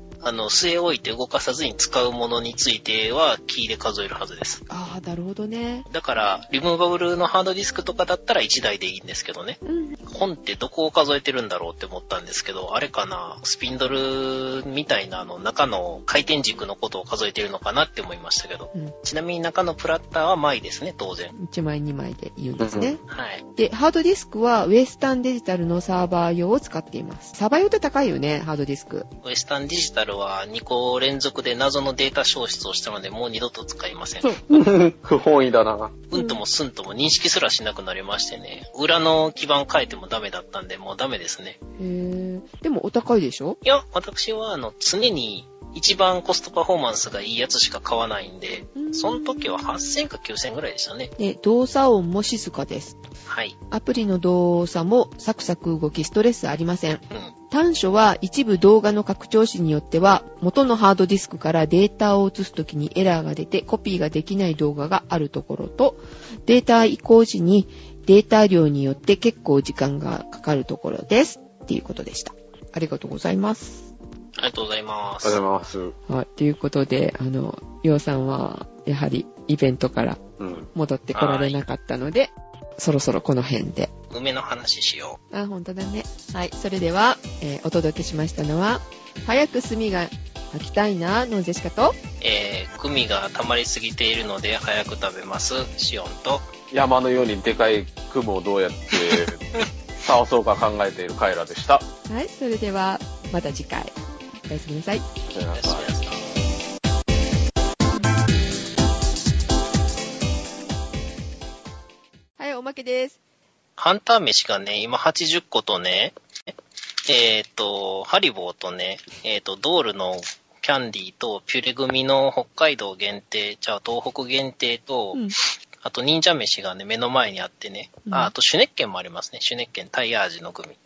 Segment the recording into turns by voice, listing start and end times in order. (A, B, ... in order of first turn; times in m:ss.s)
0:00.2-0:04.6 A
0:04.7-0:05.9 B
0:05.9-0:21.4 A
0:09.6-0:10.0 B
0:21.4-0:23.0 B
0:22.6-0:23.0 C
0:23.1-0:23.4 A
0:23.6-0:29.1 B
0:29.2-0:34.4 A
0:34.5-0:36.0 C
0:36.1-0:41.6 A
0:36.2-0:36.4 B
0:41.8-0:43.6 B
0:43.6-0:51.1 A
0:48.8-0:49.7 B
0:51.2-0:53.0 B
0:53.3-0:53.6 A
0:53.7-1:13.9 B
1:14.4-1:15.4 A
1:15.2-1:16.0 C
1:16.1-1:20.2 B
1:20.4-1:20.7 C
1:20.7-1:23.9 B
1:21.1-1:21.6 A
1:24.1-1:25.2 A
1:25.3-1:32.0 B
1:32.2-1:36.5 A
1:36.7-1:41.9 C
1:42.1-1:44.0 B
1:44.5-1:45.1 B
1:45.3-1:45.9 C
1:45.5-1:46.3 A
1:52.4-1:53.2 B
1:53.8-1:56.2 A
1:57.0-2:05.3 A
2:05.8-2:10.8 A
2:08.1-2:08.3 B